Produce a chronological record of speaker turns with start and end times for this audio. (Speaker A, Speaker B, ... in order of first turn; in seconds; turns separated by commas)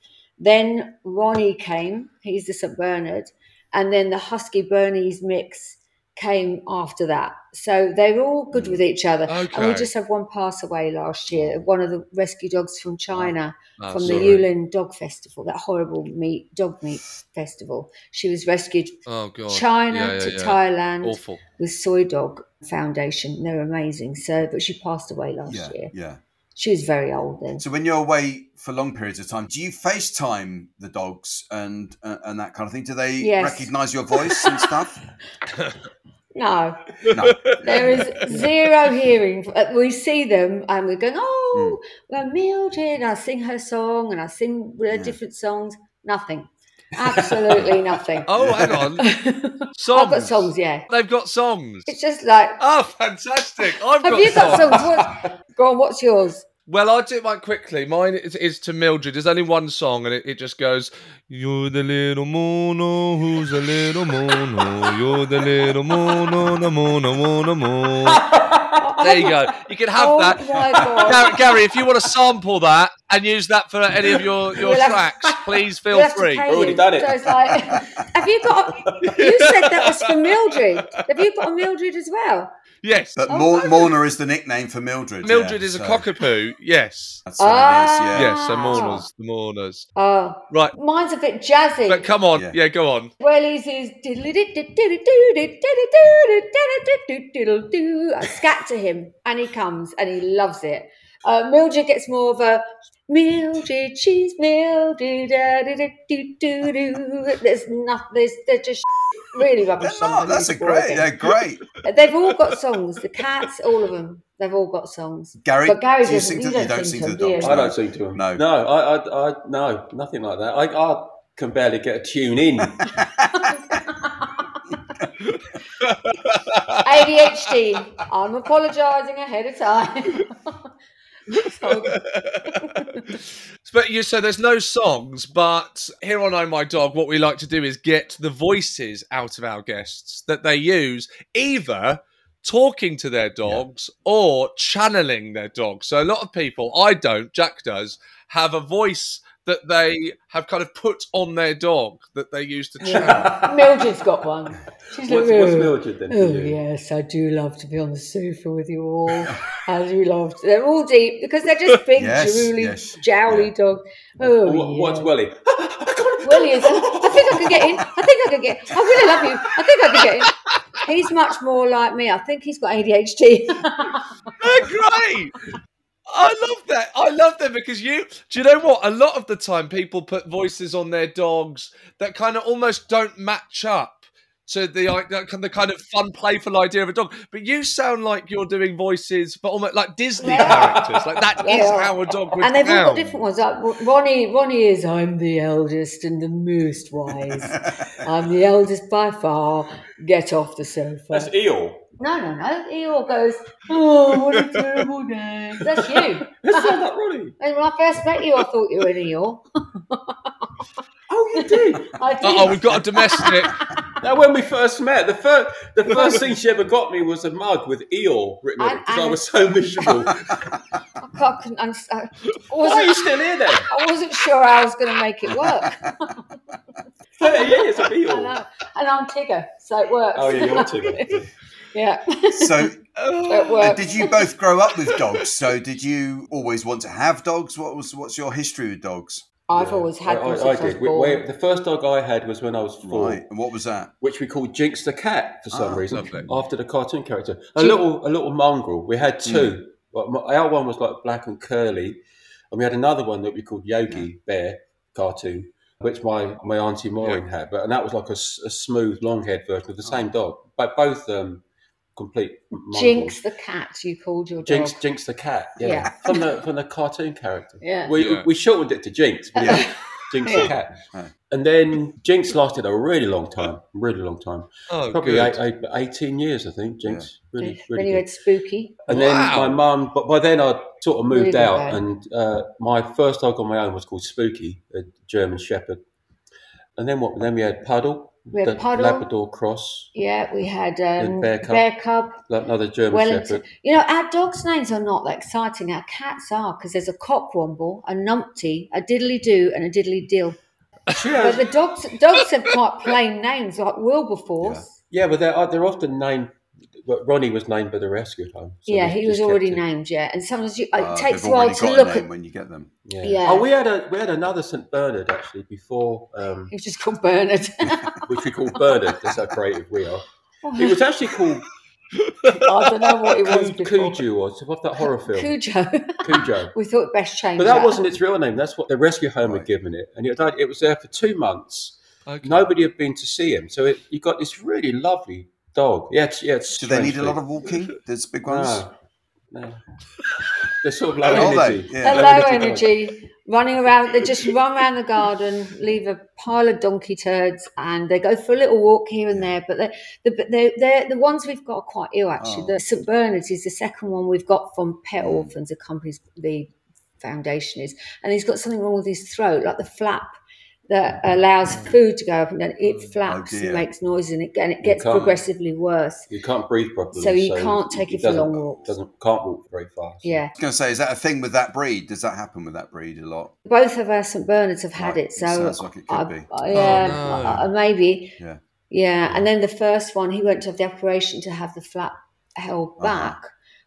Speaker A: 0.4-25.9, Speaker B: 8.5-8.8, Speaker C: 9.3-9.9, Speaker B: 11.3-11.6, Speaker C: 13.8-14.4, Speaker D: 14.0-14.4, Speaker C: 19.1-21.4, Speaker B: 25.4-26.2, Speaker A: 26.6-27.6, Speaker B: 27.6-35.0, Speaker A: 33.2-34.7, Speaker A: 36.3-50.9, Speaker B: 37.1-38.1, Speaker C: 37.2-37.6, Speaker B: 41.5-41.8, Speaker B: 44.9-45.2, Speaker C: 48.2-49.1, Speaker B: 48.4-48.8, Speaker C: 49.7-51.9, Speaker A: 51.9-52.6, Speaker C: 52.6-55.0, Speaker A: 54.0-56.5, Speaker C: 56.7-68.2, Speaker D: 68.1-69.0, Speaker A: 68.8-69.4, Speaker C: 69.0-76.5, Speaker A: 69.9-71.6, Speaker A: 74.5-82.5, Speaker D: 76.5-77.3, Speaker C: 79.0-80.6, Speaker C: 82.8-83.2, Speaker B: 83.2-86.0, Speaker A: 83.3-83.9, Speaker C: 85.2-87.2, Speaker B: 87.2-88.7, Speaker A: 87.4-89.0, Speaker C: 88.1-89.9, Speaker A: 90.0-92.1, Speaker C: 90.5-90.7, Speaker C: 91.9-93.1, Speaker A: 93.2-111.1, Speaker B: 109.8-111.6, Speaker A: 111.8-117.7, Speaker B: 115.4-118.4, Speaker D: 117.4-122.8, Speaker B: 122.6-123.8, Speaker A: 123.3-124.5, Speaker C: 125.3-127.5, Speaker A: 126.8-130.7, Speaker A: 131.3-133.0, Speaker C: 131.6-153.6, Speaker A: 152.8-165.1, Speaker D: 153.1-153.5, Speaker D: 155.0-156.6, Speaker B: 161.9-163.5, Speaker D: 164.2-167.9, Speaker A: 166.2-174.1, Speaker C: 170.2-170.6, Speaker C: 174.4-175.4, Speaker C: 176.1-193.2, Speaker A: 190.2-190.8, Speaker D: 190.3-190.9, Speaker A: 191.4-201.3, Speaker D: 201.1-201.9, Speaker A: 202.0-206.8, Speaker D: 205.5-207.3, Speaker A: 207.4-210.5, Speaker D: 211.1-213.2, Speaker A: 211.3-213.8, Speaker C: 212.2-213.6, Speaker D: 214.0-220.4, Speaker A: 215.9-216.2, Speaker A: 218.6-219.2, Speaker A: 219.7-220.1, Speaker A: 221.0-226.2, Speaker D: 222.6-223.7, Speaker B: 225.3-225.9, Speaker A: 227.2-231.2, Speaker D: 227.2-228.4, Speaker D: 230.1-231.3, Speaker A: 231.7-232.7, Speaker B: 232.3-239.2, Speaker A: 233.3-234.3, Speaker A: 239.5-241.2, Speaker D: 239.5-243.2, Speaker B: 242.8-243.9, Speaker D: 244.0-261.4, Speaker B: 245.5-246.0, Speaker C: 245.9-246.3, Speaker A: 247.6-247.8, Speaker B: 249.2-249.5, Speaker D: 261.9-263.2, Speaker A: 262.7-264.8, Speaker D: 264.4-270.8, Speaker A: 265.6-266.3, Speaker B: 265.7-266.1, Speaker A: 267.6-267.9, Speaker C: 267.9-268.3, Speaker B: 269.3-269.7, Speaker A: 269.4-270.5, Speaker B: 270.2-271.1, Speaker D: 271.3-278.1, Speaker C: 274.7-275.4, Speaker A: 277.4-278.8, Speaker D: 278.9-285.8, Speaker C: 278.9-279.6, Speaker A: 281.1-281.8, Speaker D: 286.8-289.9, Speaker A: 288.3-289.1, Speaker A: 289.9-292.2, Speaker D: 291.0-291.6, Speaker D: 292.2-293.5, Speaker A: 292.9-300.4, Speaker D: 300.9-301.5, Speaker A: 301.1-304.8, Speaker B: 304.4-304.6, Speaker D: 304.9-309.6, Speaker A: 308.7-312.0, Speaker B: 310.7-312.7, Speaker D: 312.9-316.5, Speaker A: 313.0-313.5, Speaker A: 316.5-318.9, Speaker D: 318.1-321.4, Speaker A: 320.4-320.8, Speaker C: 321.9-322.7, Speaker A: 322.3-324.1, Speaker D: 323.2-325.4, Speaker A: 325.1-327.8, Speaker D: 326.0-326.5, Speaker D: 327.4-337.2, Speaker C: 332.1-332.4, Speaker B: 336.6-338.6, Speaker D: 338.2-338.7, Speaker D: 339.3-339.6, Speaker D: 340.6-342.7, Speaker B: 341.0-342.6, Speaker A: 341.1-360.2, Speaker B: 352.2-352.6, Speaker B: 355.0-355.3, Speaker A: 360.7-366.1, Speaker B: 363.0-363.7, Speaker D: 364.6-365.2, Speaker D: 366.1-370.2, Speaker A: 366.9-368.7, Speaker A: 370.0-370.3, Speaker B: 370.4-373.3, Speaker A: 373.4-378.1, Speaker B: 374.8-377.0, Speaker C: 376.5-377.5, Speaker A: 378.7-383.3, Speaker B: 382.8-383.2